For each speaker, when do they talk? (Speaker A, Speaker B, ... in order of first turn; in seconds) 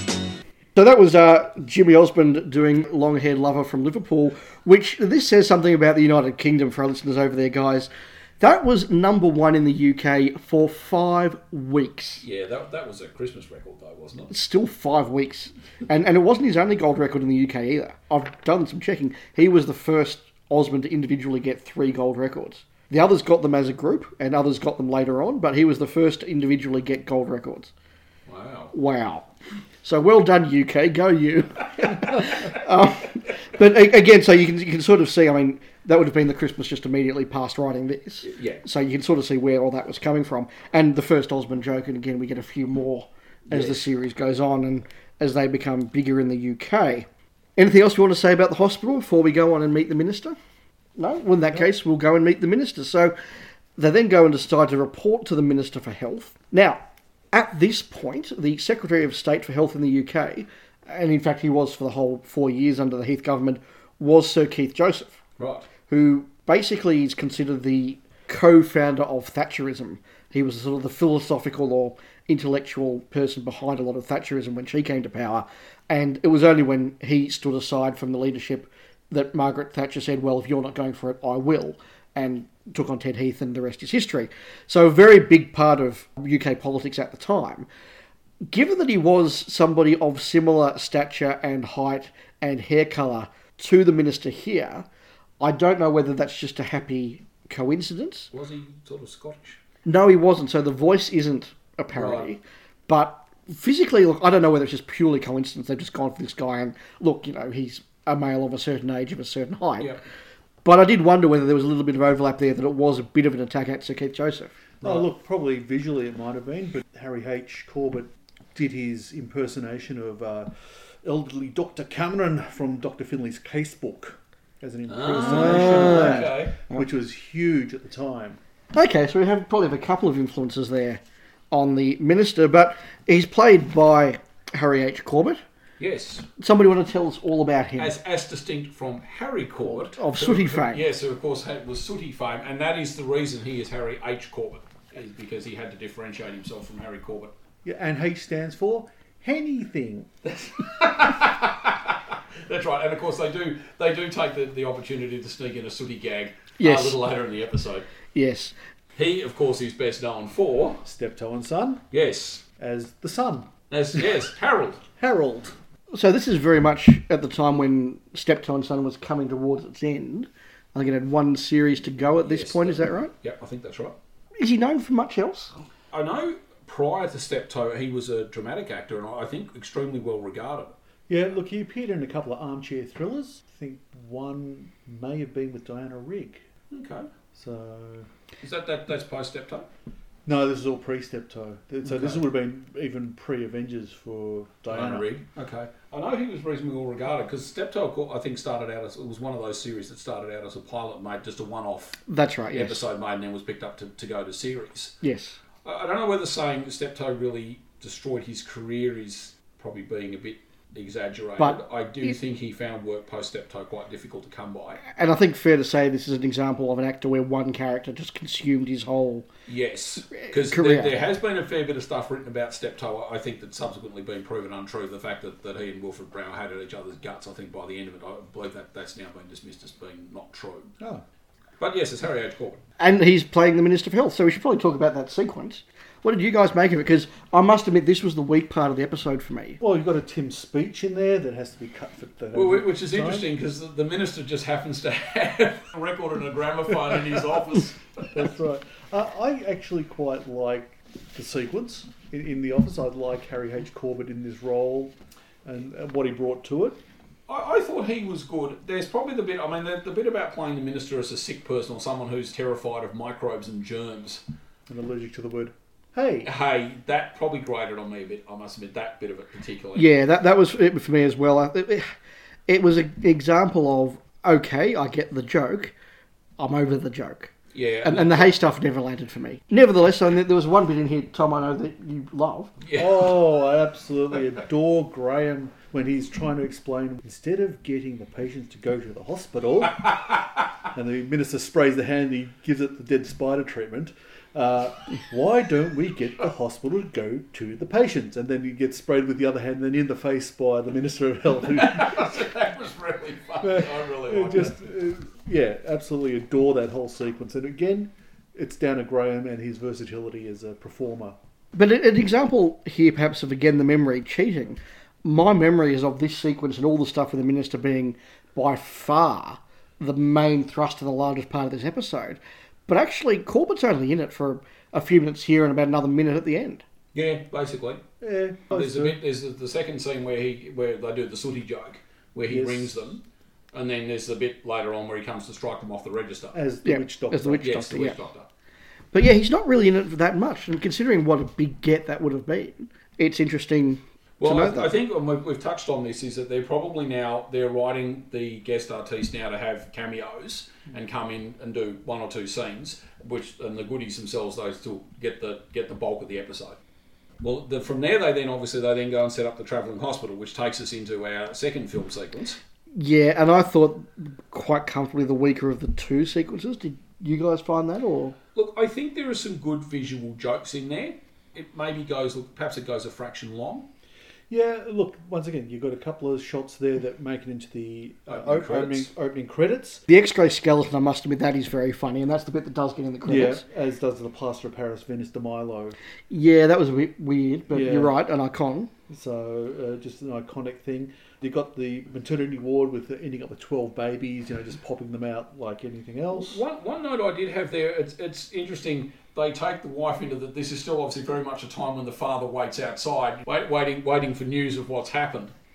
Speaker A: 0.8-12.2, 14.3-27.7, 28.7-29.2, 29.8-50.4, 51.0-53.1, 53.8-65.2, 65.9-87.7, 88.5-94.8, 95.4-98.3, 99.8-110.0, 110.6-114.5, 125.2-126.8, 128.7-135.4, 136.4-137.9, 139.6-140.8, 156.6-157.0, 158.1-158.5, 165.9-173.1, 174.4-175.5, 202.1-202.8, 205.0-205.4, 211.4-212.1, 214.9-219.3, 220.2-220.9, 232.8-239.6, 269.7-271.9, 272.5-275.7, 276.4-277.3, 277.8-282.5, 311.5-326.6, 336.6-338.0, 338.9-344.8, 362.7-368.1, 379.9-383.4, 386.1-388.7
Speaker B: 12.2-14.3, 28.3-28.7, 38.2-38.6, 43.5-43.8, 65.4-65.7, 98.3-99.6, 101.9-102.3, 124.9-126.6, 135.8-136.2, 137.8-147.3, 150.2-157.8, 158.9-160.8, 161.9-162.4, 163.7-164.8, 172.2-174.0, 175.9-180.7, 186.7-187.1, 188.4-189.7, 191.9-192.2, 194.7-202.0, 202.5-204.9, 205.6-214.8, 219.5-230.7, 231.6-232.6, 242.3-248.2, 257.3-264.2, 266.2-269.9, 277.5-278.3, 282.6-283.2, 301.5-304.6, 326.9-327.8, 328.5-336.4, 337.4-338.3, 344.2-356.6, 357.2-362.4, 368.3-373.7, 378.1-378.9, 396.1-405.3
Speaker C: 114.8-120.5, 121.0-128.4, 147.6-150.2, 160.8-161.8, 162.6-163.5, 165.0-165.6, 181.1-186.4, 187.3-188.1, 190.2-195.1, 239.6-243.3, 248.1-256.8, 264.7-266.3, 282.8-302.3, 303.4-311.1, 328.0-329.0, 332.2-332.8, 336.3-337.5, 374.3-379.8, 383.0-385.8, 387.5-387.9, 388.9-396.4